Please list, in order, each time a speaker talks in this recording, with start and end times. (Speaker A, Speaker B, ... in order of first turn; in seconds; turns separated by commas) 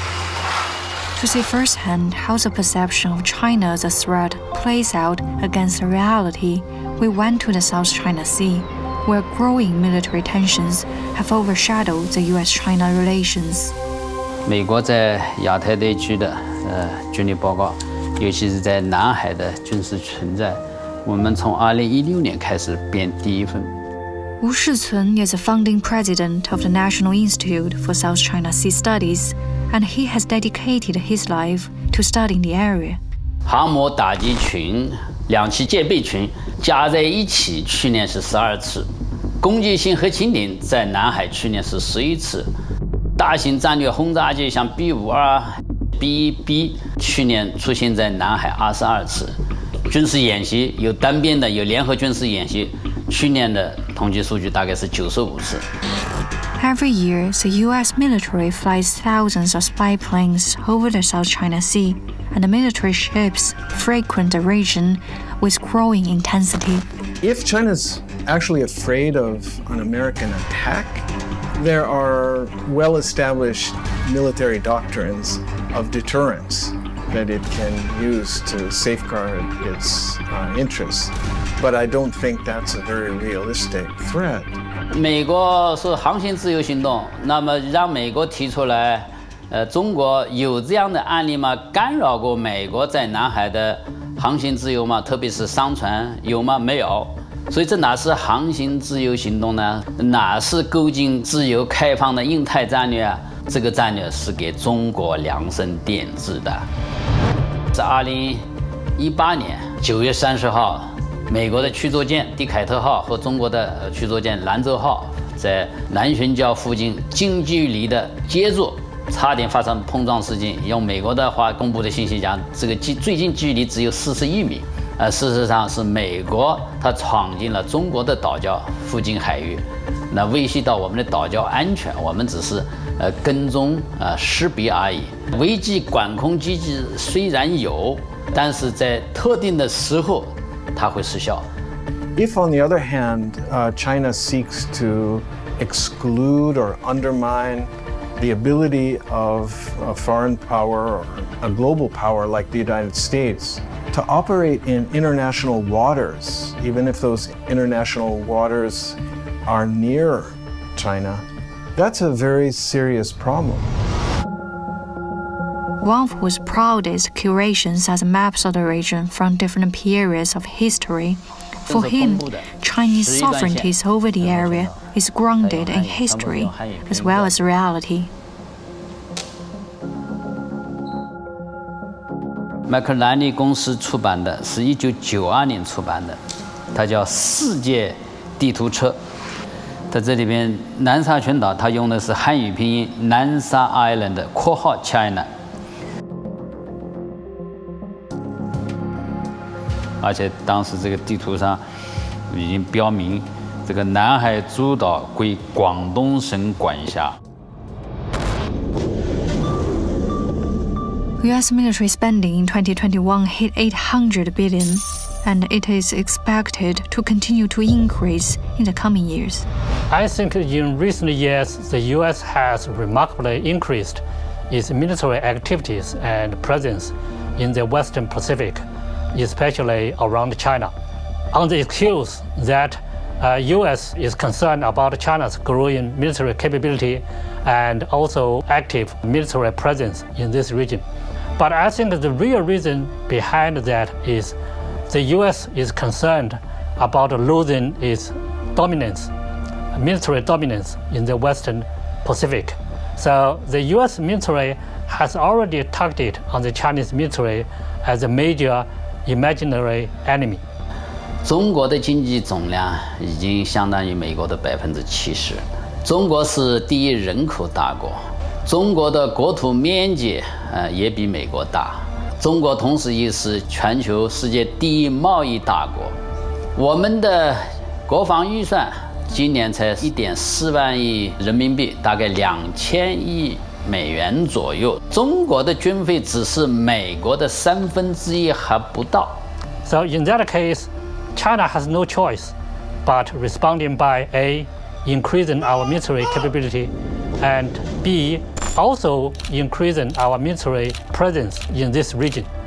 Speaker A: 1.1-13.7, Speaker B: 14.4-23.7, Speaker A: 24.4-33.0, Speaker B: 33.4-38.9, Speaker B: 39.4-42.5, Speaker B: 43.2-49.3, Speaker B: 49.9-55.6, Speaker A: 56.6-66.9, Speaker C: 67.2-84.6, Speaker B: 84.9-106.7, Speaker B: 107.7-108.4, Speaker B: 109.0-141.5, Speaker C: 142.2-163.8, Speaker A: 165.8-178.1, Speaker B: 171.7-174.8, Speaker B: 175.4-177.4, Speaker B: 182.7-186.2, Speaker B: 186.7-189.0, Speaker B: 189.9-195.3, Speaker B: 200.0-201.6, Speaker B: 202.3-207.2, Speaker A: 211.2-219.4, Speaker D: 219.9-228.6, Speaker D: 229.1-230.7, Speaker D: 231.3-240.8, Speaker D: 241.4-244.3, Speaker D: 244.9-249.1, Speaker D: 249.7-260.4, Speaker B: 261.2-276.0, Speaker B: 276.5-289.2, Speaker D: 289.6-292.3, Speaker D: 292.8-302.3